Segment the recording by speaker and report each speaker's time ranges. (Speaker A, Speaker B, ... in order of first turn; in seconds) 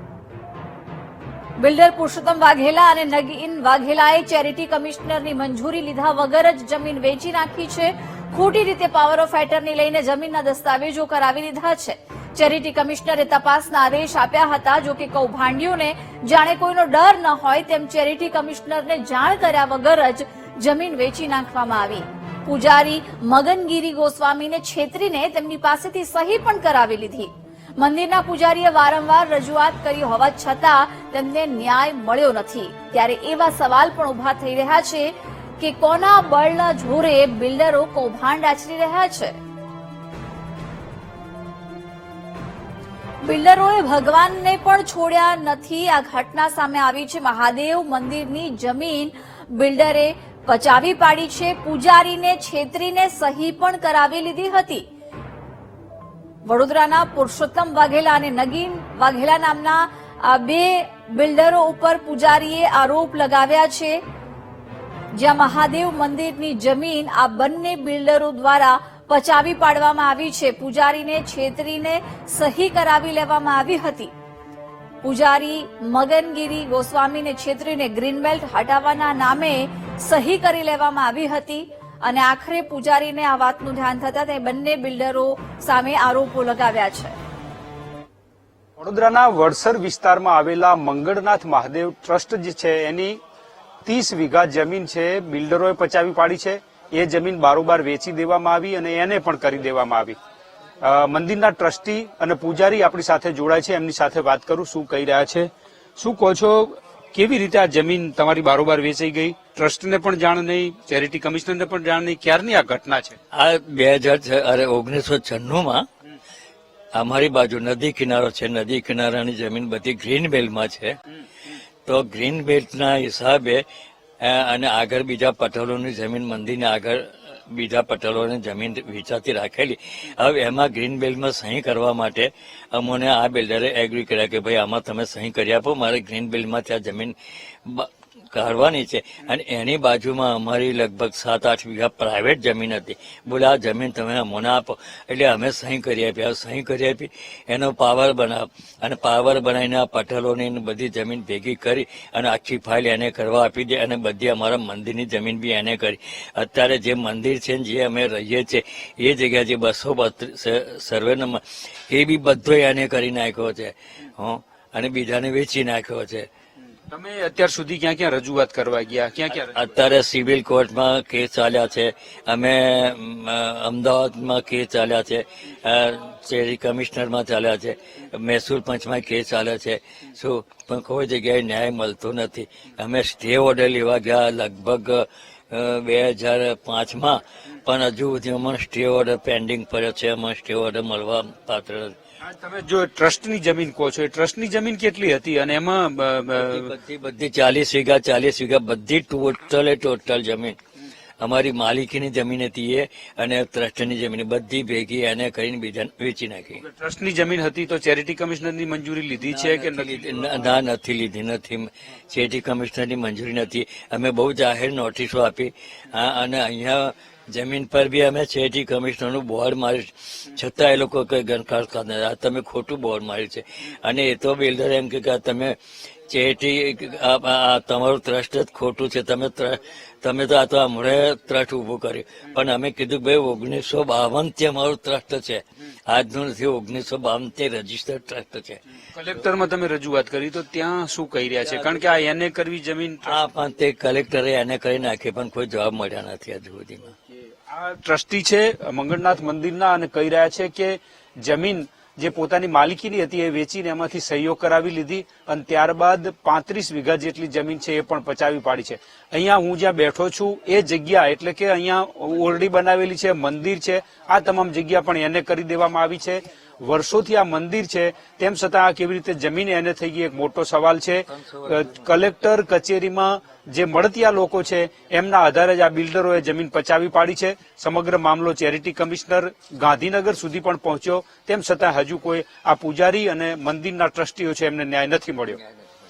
Speaker A: 1.6-39.4, 43.2-54.9, 56.5-64.0, 65.2-74.1, 75.0-87.2
Speaker B: 88.8-93.2, 93.8-100.2, 100.8-113.2, 166.9-169.6, 192.2-196.7, 206.6-210.4, 238.9-243.2, 247.5-285.4
Speaker C: 113.3-115.9, 117.0-121.0, 121.9-123.6, 124.2-166.3, 169.3-191.9, 196.4-200.6, 201.2-206.6, 209.2-225.6, 226.1-238.6, 243.1-246.9, 271.1-272.0